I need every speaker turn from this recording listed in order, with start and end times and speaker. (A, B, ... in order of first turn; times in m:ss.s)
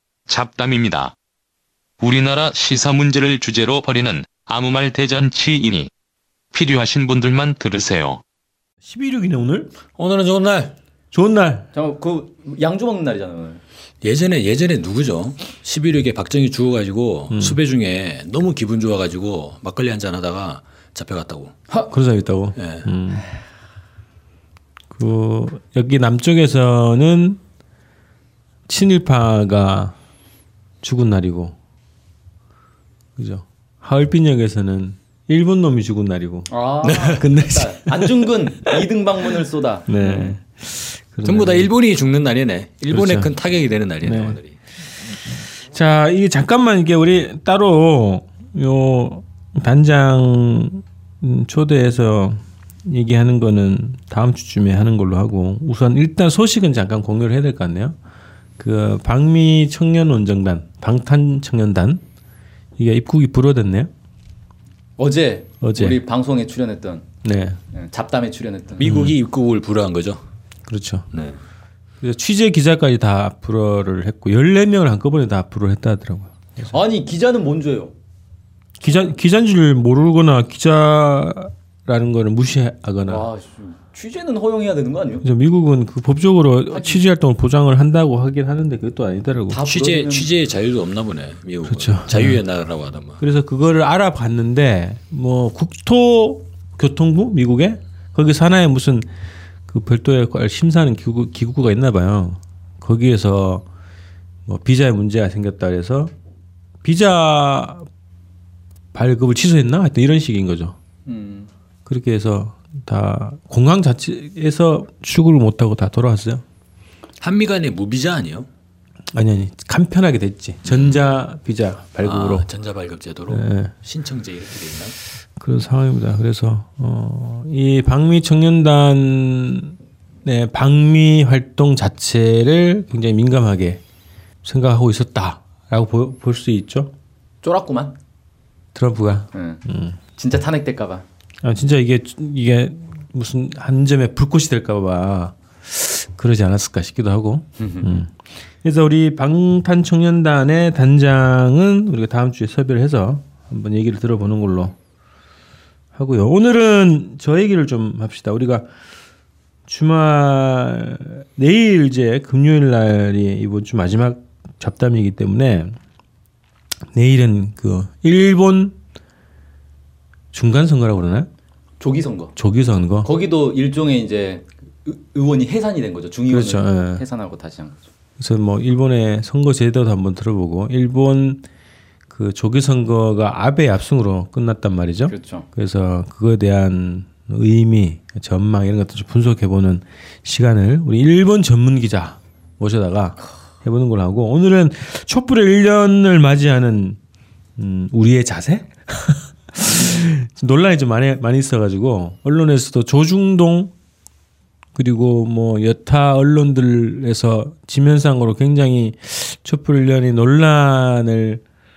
0:00.3-0:01.2 A
0:02.0-0:05.9 A
0:06.5-0:08.2 A
0:08.8-0:09.7 B
0:10.0-0:10.7 C
0:11.1-0:11.7 B
0:11.7-0:13.6 D
0:14.0-0:21.5 C
0:17.3-0:17.6 B
0:21.9-0:23.3 B
0:22.6-0:22.9 C
0:24.9-0:27.4 B
0:28.7-0:30.0 B
0:30.8-0:31.6 B
0:33.2-0:36.5 B
0:36.5-0:40.4 D
0:36.8-0:37.2 C
0:37.0-0:38.3 B
0:39.9-0:41.7 B
0:41.2-0:44.6 C
0:42.9-0:43.3 B
0:44.0-0:44.4 B
0:45.7-0:58.0 B
0:58.6-1:02.0 B
1:02.8-1:03.9 B
1:05.0-1:07.1 D
1:05.6-1:06.0 B
1:07.2-1:07.6 B
1:07.7-1:09.0 D
1:08.8-1:10.2 C
1:08.8-1:09.1 B
1:10.7-1:11.1 B
1:11.1-1:11.4 C
1:12.0-1:16.8 B
1:16.7-1:17.9 D
1:18.8-1:23.3 B
1:23.1-1:25.3 D
1:25.2-1:29.6 B
1:26.7-1:27.0 D
1:29.5-1:30.3 D
1:29.6-1:33.2 C
1:31.7-1:32.4 B
1:33.2-1:39.1 B
1:39.7-1:43.6 B
1:44.5-1:46.1 B
1:46.8-1:47.9 B
1:48.9-1:50.8 B
1:51.1-1:51.5 D
1:51.9-1:56.4 B
1:57.2-1:58.5 C
1:59.1-2:02.5 B
2:00.7-2:01.0 C
2:02.0-2:05.0 C
2:03.3-2:03.7 B
2:05.4-2:13.8 B
2:14.4-2:16.9 B
2:17.4-2:18.0 D
2:18.8-2:20.0 B
2:19.3-2:19.6 D
2:20.2-2:21.0 D
2:21.4-2:28.1 B
2:27.6-2:28.0 D
2:28.6-2:34.8 B
2:35.9-2:38.7 B
2:39.7-2:45.8 B
2:46.9-2:48.8 B
2:50.3-2:51.3 B
2:51.8-2:52.4 D
2:52.4-2:53.1 B
2:53.0-2:57.8 D
2:56.3-2:57.0 B
2:58.2-3:01.4 B
3:02.1-3:17.0 B
3:05.1-3:05.5 D
3:17.6-3:23.7 B
3:24.8-3:31.4 B